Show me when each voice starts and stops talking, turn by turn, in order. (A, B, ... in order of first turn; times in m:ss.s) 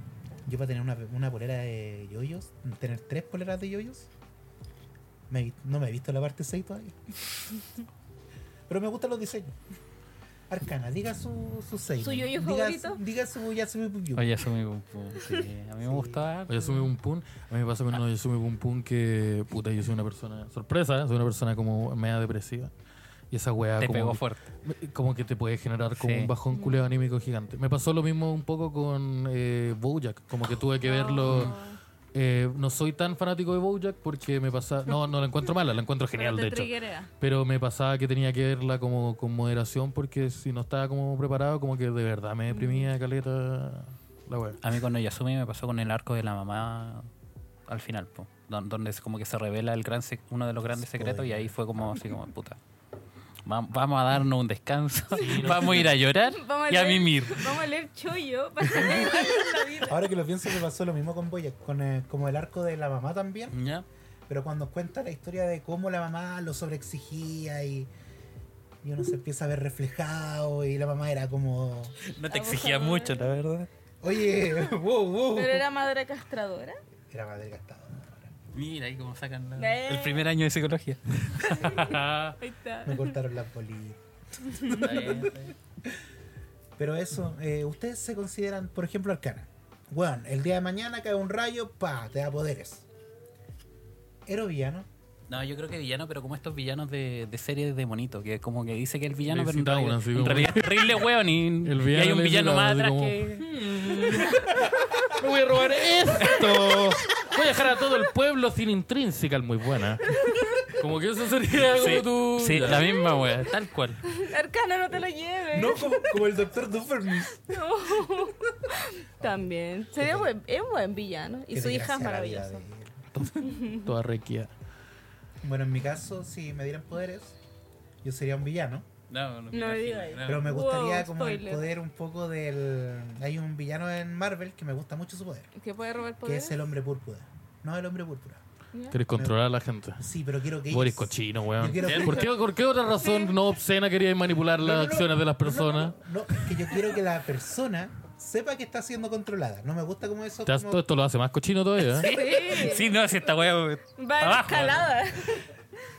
0:00.5-0:04.1 A
0:05.3-0:07.0 A
0:08.7-0:09.6 A
0:10.5-0:14.4 A
0:12.0-0:13.0 B
0:14.2-0:16.9 C
0:15.2-0:15.4 B
0:15.8-0:16.3 A
0:16.5-0:22.7 D
0:23.3-0:31.6 D
0:23.8-0:24.4 C
0:26.0-0:26.3 C
0:26.5-0:26.9 B
0:30.8-0:31.8 B
0:31.3-0:31.5 C
0:32.1-0:44.6 D
0:36.1-0:37.1 B
0:42.5-0:42.9 B
0:44.6-0:47.1 C
0:47.7-0:52.6 C
0:50.8-0:51.5 A
0:53.5-0:57.6 C
0:55.2-0:55.9 D
0:56.2-1:00.1 B
0:58.7-1:03.6 A
1:03.5-1:03.8 C
1:04.3-1:07.9 A
1:08.8-1:12.0 A
1:12.0-1:13.7 C
1:12.3-1:13.2 B
1:14.0-1:15.7 A
1:14.3-1:14.6 B
1:15.3-1:16.8 B
1:17.1-1:18.3 A
1:18.5-1:22.2 C
1:19.6-1:20.3 B
1:21.4-1:23.2 B
1:21.8-1:22.4 D
1:22.8-1:25.5 A
1:24.5-1:25.0 B
1:24.7-1:25.5 C
1:26.8-1:32.9 A
1:34.3-1:34.9 A
1:35.3-1:43.5 C
1:39.3-1:41.1 D
1:41.6-1:52.9 D
1:43.9-1:44.6 B
1:50.2-1:50.6 B
1:51.6-1:54.0 C
1:54.1-1:56.2 B
1:55.5-1:57.6 A
1:57.4-2:02.6 B
1:59.9-2:00.3 A
2:01.5-2:03.0 A
2:03.1-2:04.5 D
2:03.4-2:03.9 B
2:05.4-2:07.4 A
2:08.0-2:08.9 A
2:09.1-2:10.6 C
2:09.5-2:11.7 B
2:10.2-2:15.5 A
2:15.6-2:16.6 B
2:16.2-2:18.4 A
2:18.9-2:20.1 D
2:20.0-2:22.3 A
2:20.7-2:26.0 D
2:21.8-2:22.2 C
2:23.0-2:23.3 B
2:24.6-2:30.8 A
2:30.5-2:32.2 D
2:31.8-2:34.9 C
2:32.0-2:32.9 B
2:34.0-2:35.5 B